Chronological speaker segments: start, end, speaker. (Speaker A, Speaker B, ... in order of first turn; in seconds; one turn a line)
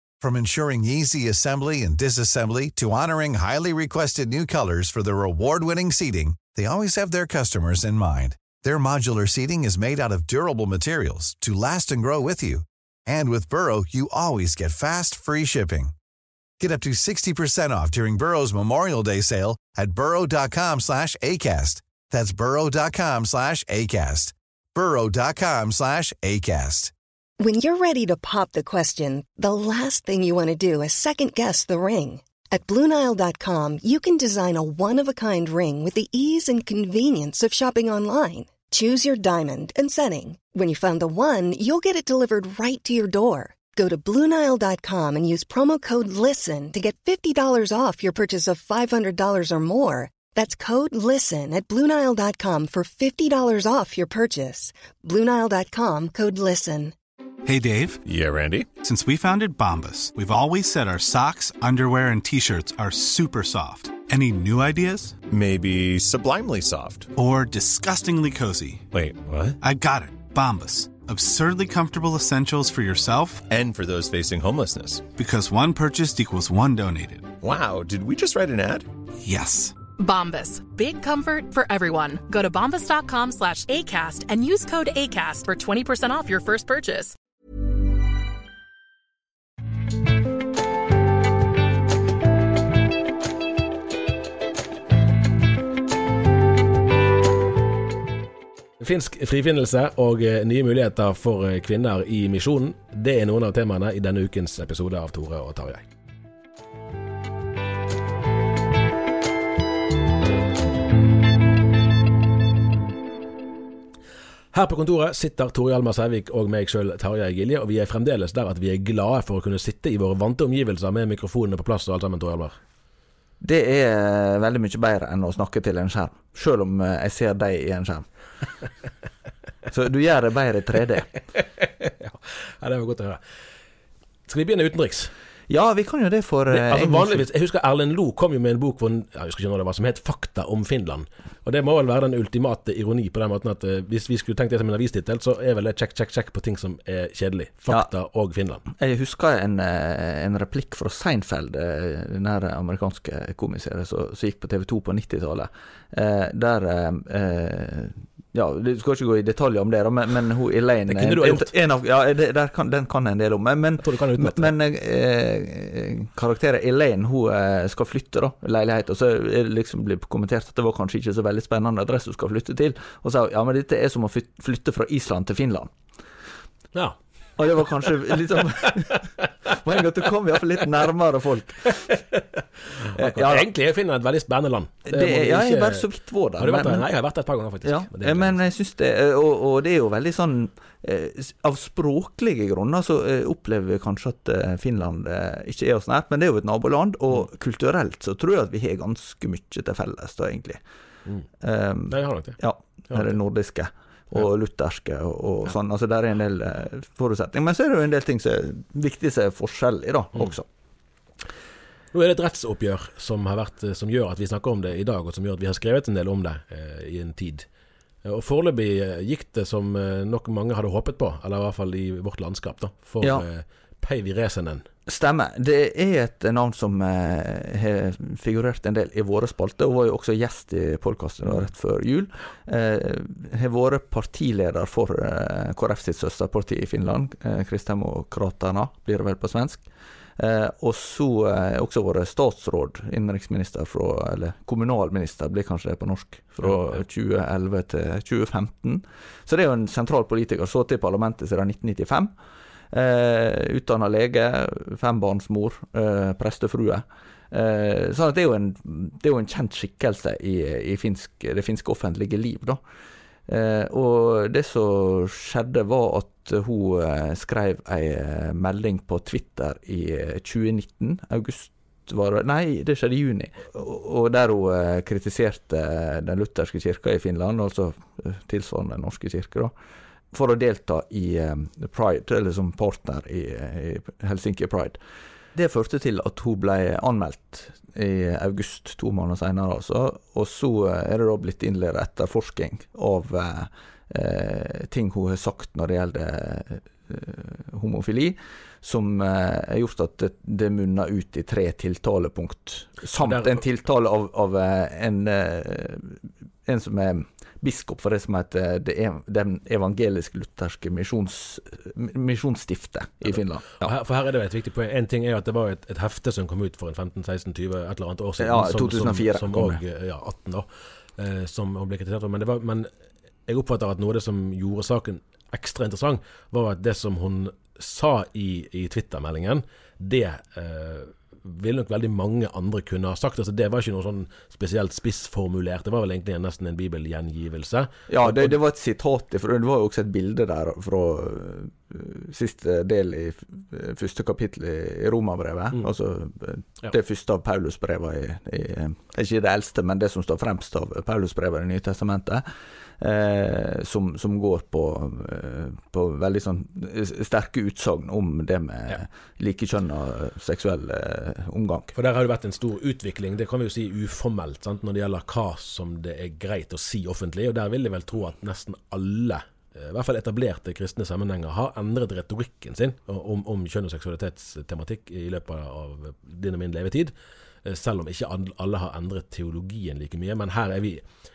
Speaker A: 0.2-15.9
Speaker A: 16.6-26.9
Speaker B: 27.4-56.9
Speaker C: 57.4-58.0
Speaker D: 58.0-58.7
Speaker C: 58.8-65.2
Speaker D: 65.2-67.1
Speaker C: 67.2-68.9
Speaker D: 68.9-69.6
Speaker C: 69.6-73.4
Speaker D: 73.4-75.1
Speaker C: 75.2-77.3
Speaker D: 77.4-78.9
Speaker C: 79.2-79.8
Speaker E: 80.0-87.1
Speaker F: 98.8-105.8
Speaker F: 114.5-122.6
Speaker G: 123.4-128.1
Speaker G: 129.7-131.1
Speaker F: 131.6-133.2
Speaker F: 134.3-135.1
Speaker G: 135.5-137.2
Speaker F: 136.5-148.7
Speaker G: 148.8-175.7
Speaker F: 160.9-161.5
Speaker F: 163.8-164.5
Speaker G: 177.4-181.8
Speaker F: 181.8-185.9
Speaker G: 182.9-183.5
Speaker G: 184.9-186.8
Speaker F: 186.4-188.4
Speaker G: 187.6-200.6
Speaker G: 201.4-210.4
Speaker F: 201.9-202.4
Speaker F: 202.9-203.2
Speaker F: 211.9-217.4
Speaker F: 218.0-224.7
Speaker G: 224.9-239.6
Speaker G: 240.2-252.1
Speaker G: 252.7-262.6
Speaker G: 263.3-279.5
Speaker G: 280.1-284.8
Speaker G: 285.3-313.7
Speaker F: 303.0-303.4
Speaker F: 313.6-322.7
Speaker G: 318.2-319.6
Speaker F: 323.3-338.4
Speaker G: 337.9-352.2
Speaker G: 352.8-361.7
Speaker F: 361.7-376.9
Speaker F: 377.4-380.8